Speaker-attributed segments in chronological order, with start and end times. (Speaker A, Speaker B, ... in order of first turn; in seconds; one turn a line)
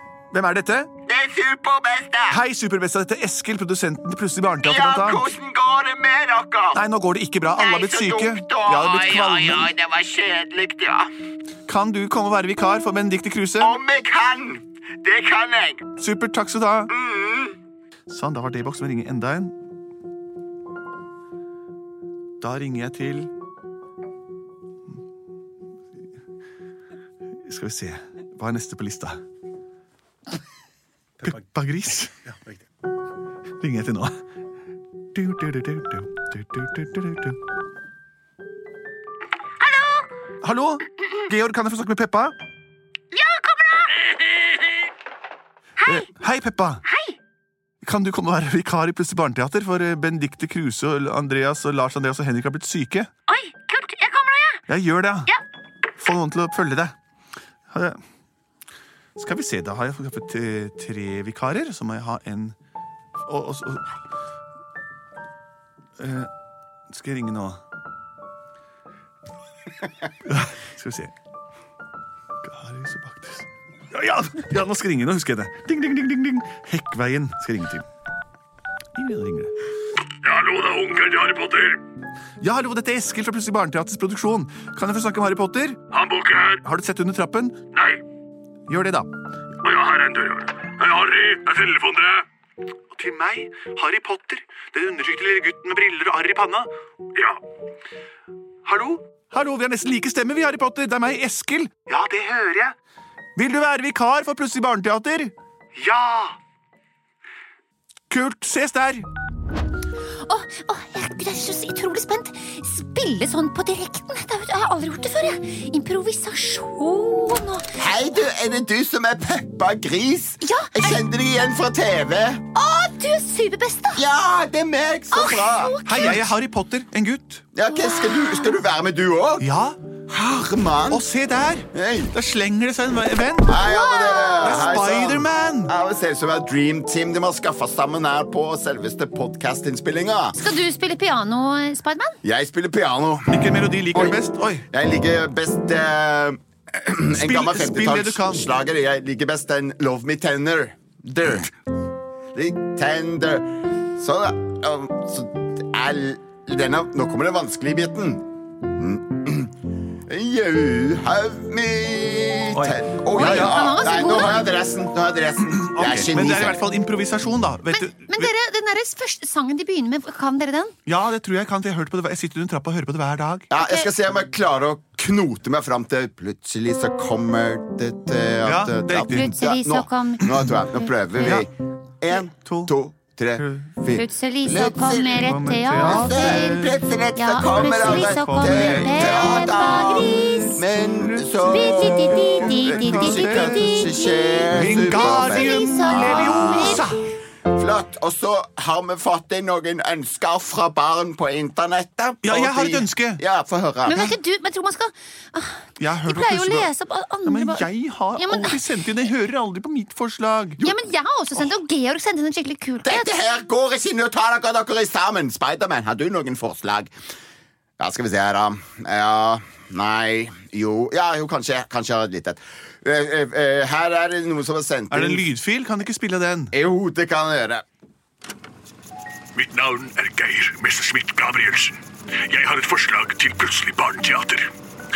Speaker A: 0.3-0.9
Speaker B: 1.1-2.4
Speaker A: 2.3-5.3
Speaker B: 4.6-6.8
Speaker A: 6.7-9.7
Speaker B: 7.5-11.1
Speaker A: 11.7-13.8
Speaker B: 13.6-15.8
Speaker A: 16.0-16.9
Speaker B: 16.9-17.6
Speaker A: 18.1-19.5
Speaker A: 22.4-23.3
Speaker A: 27.4-29.2
Speaker A: 31.2-32.2
Speaker A: 33.6-34.2
Speaker A: 35.1-37.4
Speaker C: 39.6-40.1
Speaker A: 40.4-42.3
Speaker C: 43.1-44.6
Speaker A: 45.8-46.8
Speaker C: 46.9-47.2
Speaker A: 47.8-53.1
Speaker C: 53.3-54.6
Speaker A: 54.7-55.3
Speaker A: 56.0-56.9
Speaker A: 57.7-58.0
Speaker A: 59.2-62.6
Speaker A: 63.2-63.8
Speaker A: 66.0-66.3
Speaker A: 66.9-67.6
Speaker A: 70.2-71.1
Speaker A: 72.4-77.8
Speaker A: 78.9-79.5
Speaker D: 80.2-81.8
Speaker A: 82.4-85.8
Speaker D: 85.9-86.6
Speaker A: 86.6-87.6
Speaker A: 88.7-89.1
Speaker D: 89.6-92.2
Speaker A: 92.9-96.7
Speaker A: 98.7-102.7
Speaker A: 103.3-106.3
Speaker A: 108.1-109.0
Speaker C: 110.2-117.8
Speaker B: 117.8-122.4
Speaker C: 120.4-121.0
Speaker C: 122.5-124.0
Speaker B: 124.0-126.2
Speaker C: 125.1-126.3
Speaker A: 125.8-127.4
Speaker B: 127.5-129.5
Speaker C: 127.7-128.6
Speaker A: 129.4-129.8
Speaker B: 130.1-131.1
Speaker A: 130.9-133.6
Speaker B: 131.7-132.1
Speaker B: 133.4-140.4
Speaker C: 133.6-134.6
Speaker A: 134.4-135.7
Speaker C: 140.3-142.2
Speaker B: 142.2-143.4
Speaker A: 143.3-144.7
Speaker B: 143.9-151.5
Speaker A: 147.2-148.5
Speaker B: 152.3-159.5
Speaker B: 160.1-166.6
Speaker A: 162.5-163.6
Speaker C: 163.1-164.4
Speaker A: 165.6-168.3
Speaker C: 167.7-170.7
Speaker A: 170.8-173.5
Speaker B: 173.5-181.5
Speaker C: 173.6-173.9
Speaker A: 178.4-179.3
Speaker C: 179.1-180.3
Speaker A: 181.2-181.5
Speaker B: 182.0-204.0
Speaker A: 182.1-182.7
Speaker A: 183.4-183.7
Speaker C: 183.9-190.6
Speaker A: 185.2-186.7
Speaker A: 187.4-193.9
Speaker C: 191.5-196.9
Speaker A: 194.5-197.0
Speaker A: 202.2-203.2
Speaker C: 203.8-208.6
Speaker A: 203.9-204.1
Speaker A: 205.8-206.7
Speaker A: 207.2-210.6
Speaker C: 210.6-213.1
Speaker B: 212.8-216.9
Speaker B: 217.8-225.3
Speaker A: 224.9-226.5
Speaker B: 226.5-227.6
Speaker D: 229.3-234.5